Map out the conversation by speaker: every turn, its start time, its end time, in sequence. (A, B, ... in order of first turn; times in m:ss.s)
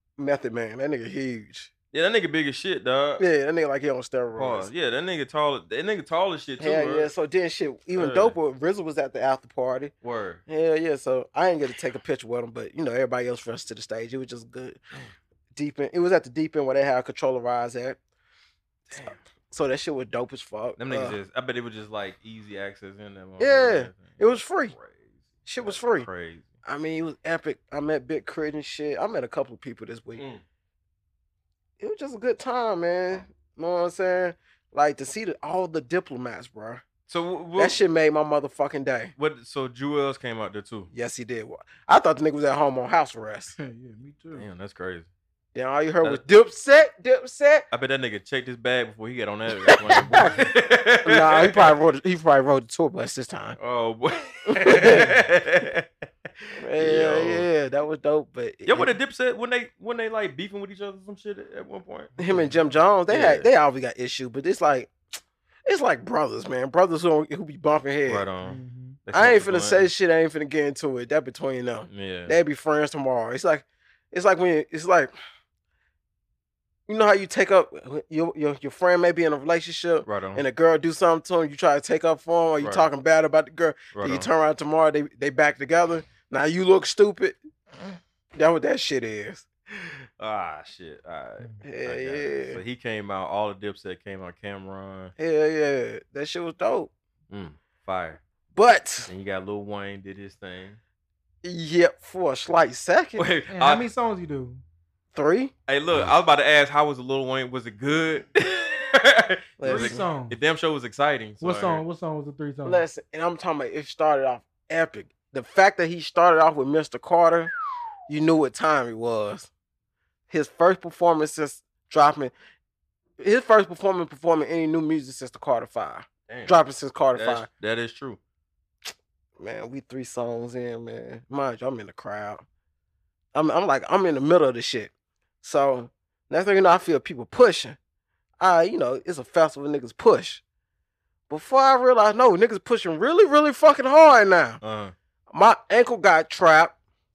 0:00.2-0:01.7 A
0:01.9-0:03.2 B
0:03.2-0:04.7 A
0:04.4-0:07.1 B
0:06.6-0:09.9 A
0:07.9-0:08.4 B
0:10.0-0:10.4 B
0:10.5-0:14.8 A
0:15.5-0:18.0 A
0:18.9-0:21.2 A
0:20.8-0:26.5 B
0:23.4-0:24.7 A
0:25.5-0:26.1 A
0:26.6-0:30.2 A
0:30.2-0:30.4 B
0:31.8-0:36.8 A
0:37.1-0:37.8 B
0:37.6-0:39.1 A
0:39.2-0:40.9 B
0:40.9-0:43.5 A
0:43.6-0:44.4 C
0:44.3-0:45.1 B
0:45.5-0:47.6 A
0:47.7-0:51.7 B
0:49.7-0:50.3 A
0:50.0-0:50.4 C
0:51.0-0:53.6 A
0:53.6-0:55.9 B
0:54.5-0:55.1 A
0:56.5-0:57.5 B
0:56.5-0:58.9 A
0:58.6-1:02.1 B
1:02.2-1:04.9 A
1:02.2-1:02.6 C
1:03.1-1:03.5 B
1:05.6-1:08.2 A
1:08.0-1:09.9 B
1:08.4-1:09.0 C
1:09.1-1:15.1 A
1:11.9-1:12.4 B
1:16.9-1:27.4 A
1:20.0-1:20.4 B
1:22.6-1:22.9 B
1:23.9-1:24.3 B
1:28.4-1:29.4 A
1:29.8-1:35.1 B
1:31.6-1:32.6 A
1:35.2-1:36.9 A
1:37.3-1:38.2 B
1:38.5-1:39.1 A
1:39.1-1:40.8 B
1:41.4-1:43.2 A
1:43.2-1:43.9 B
1:43.5-1:44.6 C
1:45.1-1:45.5 A
1:45.7-1:51.8 B
1:49.6-1:50.0 A
1:49.6-1:50.4 C
1:51.4-1:52.8 C
1:52.6-1:57.5 A
1:58.1-1:59.5 A
2:00.3-2:02.3 A
2:03.2-2:07.5 A
2:06.3-2:06.6 B
2:07.1-2:08.2 B
2:09.4-2:12.4 A
2:13.3-2:14.9 A
2:15.4-2:17.8 A
2:18.4-2:20.4 A
2:21.3-2:24.6 A
2:24.6-2:24.9 B
2:25.3-2:26.8 A